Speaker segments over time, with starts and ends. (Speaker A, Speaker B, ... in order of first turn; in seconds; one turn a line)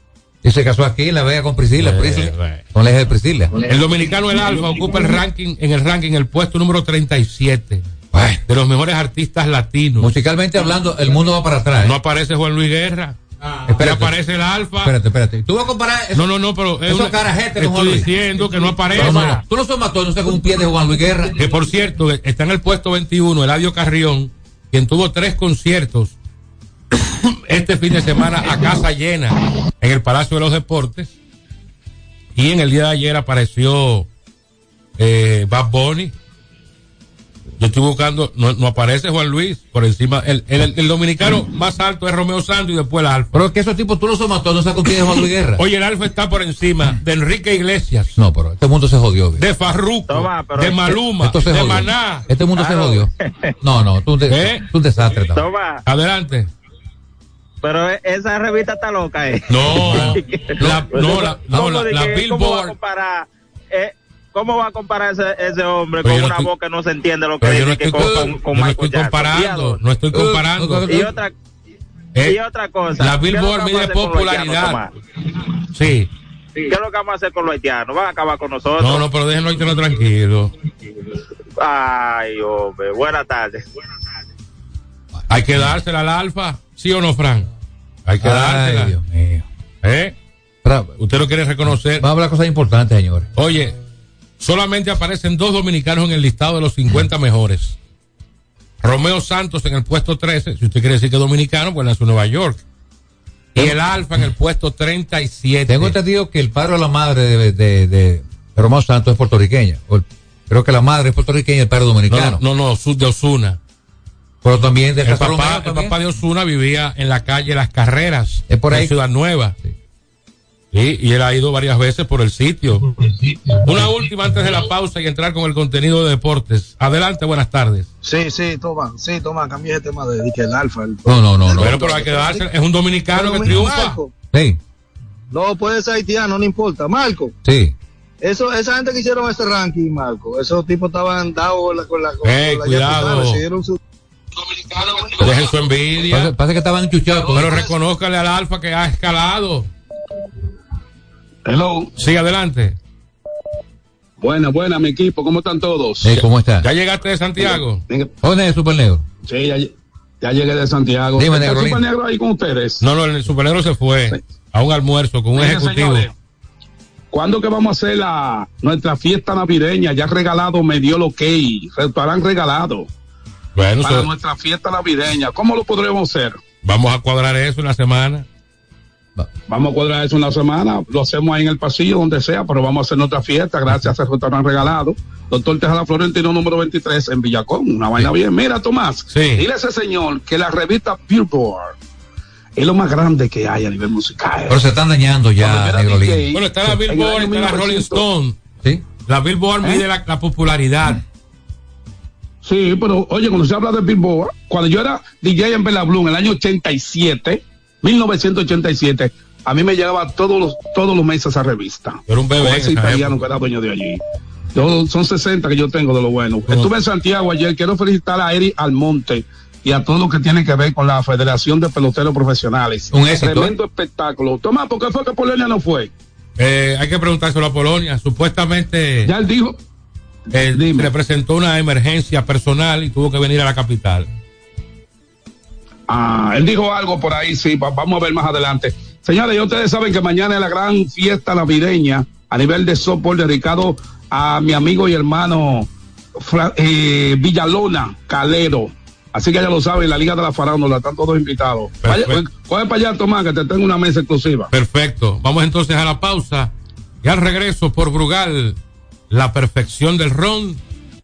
Speaker A: 0.4-3.6
Speaker B: 1.8-2.6
Speaker B: 3.6-7.8
Speaker A: 8.1-8.4
Speaker B: 8.4-10.1
Speaker A: 10.0-11.9
Speaker B: 11.8-13.2
Speaker A: 13.7-14.1
Speaker B: 13.8-14.9
Speaker A: 14.8-16.3
Speaker B: 16.1-19.4
Speaker A: 16.8-21.4
Speaker B: 21.4-26.1
Speaker B: 27.4-31.1
Speaker B: 32.3-34.1
Speaker B: 35.0-36.1
Speaker B: 37.6-43.4
Speaker A: 43.3-45.6
Speaker B: 45.6-48.1
Speaker A: 48.1-49.4
Speaker B: 49.4-52.2
Speaker C: 50.1-51.0
Speaker A: 51.2-55.5
Speaker C: 52.6-53.5
Speaker B: 54.3-54.7
Speaker C: 55.2-55.8
Speaker B: 55.8-56.5
Speaker C: 57.6-69.8
Speaker B: 59.5-62.7
Speaker A: 59.8-60.9
Speaker B: 66.0-66.5
Speaker B: 67.4-71.1
Speaker A: 70.1-71.0
Speaker C: 70.9-71.3
Speaker B: 72.1-72.4
Speaker C: 72.2-74.9
Speaker B: 73.0-74.8
Speaker B: 75.7-76.1
Speaker C: 76.7-79.0
Speaker B: 78.8-80.5
Speaker C: 81.6-84.2
Speaker A: 85.1-85.8
Speaker B: 85.3-87.5
Speaker B: 88.0-88.9
Speaker A: 88.2-89.5
Speaker B: 89.8-90.2
Speaker A: 90.6-91.0
Speaker B: 91.0-92.0
Speaker A: 91.6-93.3
Speaker B: 93.3-93.8
Speaker B: 94.4-97.8
Speaker B: 98.8-102.6
Speaker B: 103.5-106.0
Speaker A: 103.5-104.2
Speaker A: 105.7-112.4
Speaker B: 112.1-113.6
Speaker A: 114.4-116.0
Speaker B: 115.0-119.5
Speaker A: 118.5-118.9
Speaker B: 120.7-122.8
Speaker D: 123.3-123.5
Speaker B: 123.6-127.9
Speaker D: 128.0-132.4
Speaker A: 131.0-131.9
Speaker B: 131.5-134.0
Speaker D: 133.1-134.1
Speaker A: 134.3-134.6
Speaker D: 135.3-137.3
Speaker A: 137.4-137.7
Speaker D: 138.2-143.8
Speaker B: 142.2-143.4
Speaker B: 144.7-146.3
Speaker A: 146.0-147.7
Speaker B: 147.3-149.7
Speaker E: 151.4-151.9
Speaker B: 152.0-152.8
Speaker E: 154.2-156.1
Speaker A: 156.0-156.7
Speaker B: 156.6-157.8
Speaker E: 157.4-158.1
Speaker A: 158.2-159.1
Speaker E: 159.2-162.8
Speaker A: 161.2-161.8
Speaker B: 162.8-166.1
Speaker E: 165.3-166.1
Speaker E: 167.1-172.9
Speaker B: 173.6-174.1
Speaker E: 173.8-176.4
Speaker B: 176.6-178.2
Speaker E: 179.5-191.7
Speaker B: 189.1-189.4
Speaker E: 192.6-194.6
Speaker A: 194.5-196.3
Speaker E: 195.4-198.0
Speaker B: 196.3-198.4
Speaker B: 199.0-201.0
Speaker E: 202.4-214.0
Speaker B: 212.1-213.2
Speaker E: 214.5-225.9
Speaker B: 216.5-216.7
Speaker A: 222.9-223.5
Speaker B: 226.4-229.1
Speaker E: 229.0-229.6
Speaker B: 230.3-234.1
Speaker E: 230.5-230.9
Speaker E: 235.9-254.5
Speaker B: 251.8-252.2
Speaker B: 254.5-256.5
Speaker B: 257.0-258.6
Speaker B: 259.1-260.6